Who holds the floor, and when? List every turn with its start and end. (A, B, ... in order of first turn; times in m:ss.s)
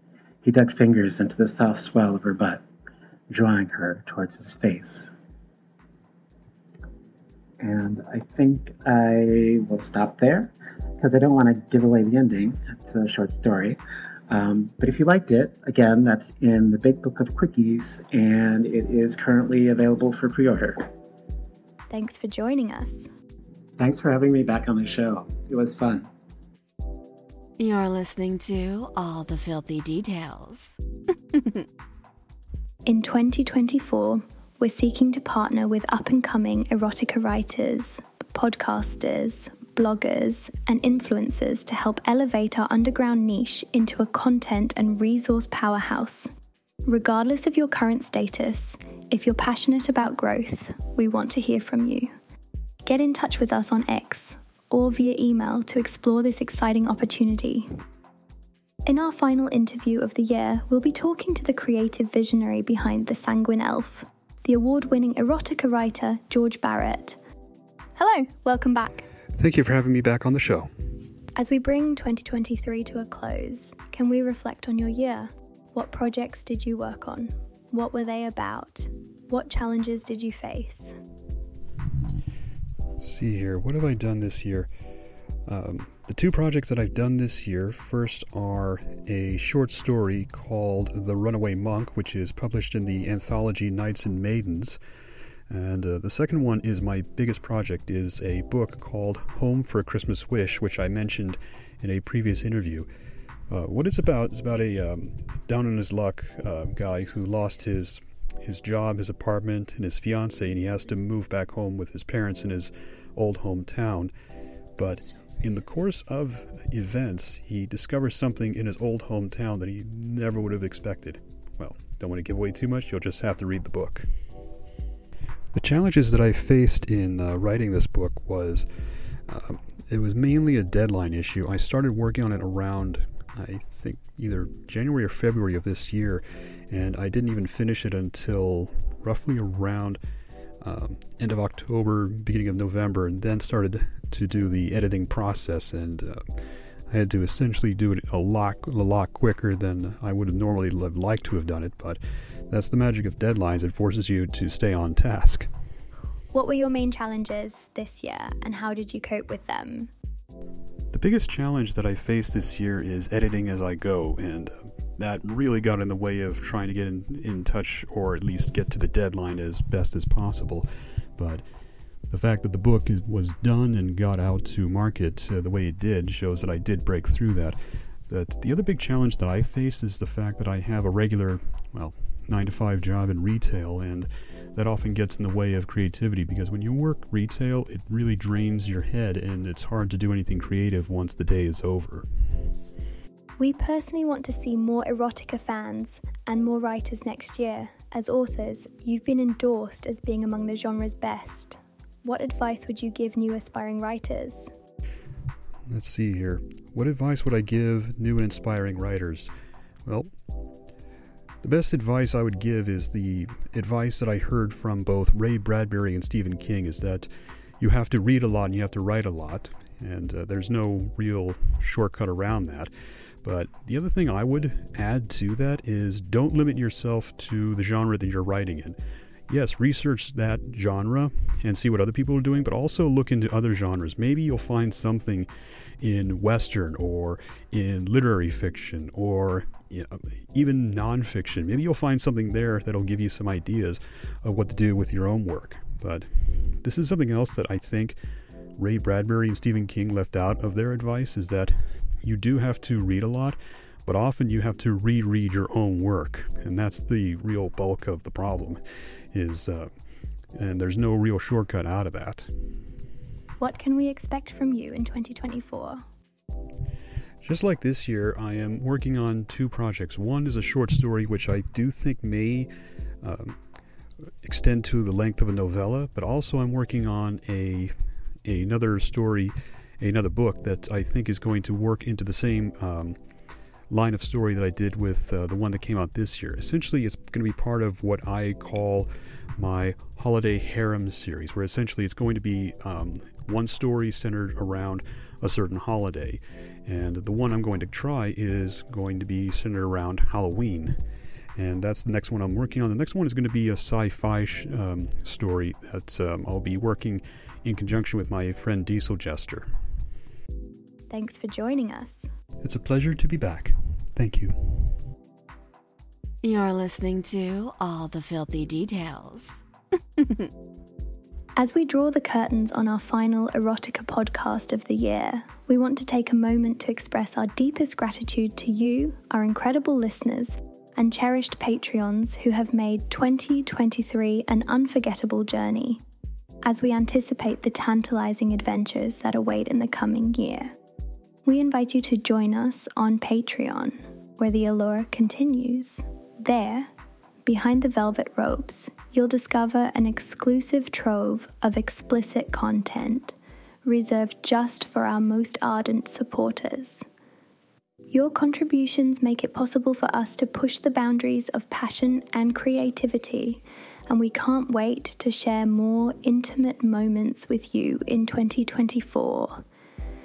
0:00.4-0:02.6 A
0:03.3-0:05.1 A
0:07.6-0:13.8 A
0:14.3-0:20.9 A
0:21.9-0:23.1 B
0:23.8-0:26.1 A
0:27.6-0:30.8 C
0:31.3-0:31.6 C
0:32.8-0:46.3 B
0:46.9-0:52.1 B
0:52.8-0:57.7 B
0:58.8-1:07.2 B
1:08.0-1:09.1 B
1:09.3-1:10.7 D
1:11.4-1:20.9 B
1:23.0-1:24.7 D
1:25.4-1:34.8 D
1:35.5-1:42.9 D
1:43.5-1:54.1 D
1:54.8-2:04.1 D
2:05.5-2:08.7 D
2:09.3-2:20.0 D
2:20.6-2:35.5 D
2:36.3-2:39.9 B
2:40.9-2:51.4 D
2:52.1-3:12.5 D
3:13.4-3:24.5 B
3:25.7-3:29.3 D
3:29.8-3:30.1 D
3:31.4-3:42.7 D
3:43.2-3:48.8 D
3:49.3-3:55.3 D
3:55.8-4:08.0 D
4:08.6-4:19.7 D
4:20.3-4:22.3 D
4:23.4-4:25.8 B
4:27.2-4:32.5 D
4:33.0-4:33.4 D
4:34.2-4:43.0 D
4:43.7-5:00.8 D
5:01.4-5:09.5 D
5:10.9-5:12.1 B
5:12.4-5:14.8 D
5:16.2-5:19.4 C
5:20.0-5:20.3 C
5:21.4-5:35.8 B
5:36.4-5:40.5 B
5:41.2-5:46.7 B
5:47.2-5:56.8 B
5:57.9-6:09.4 B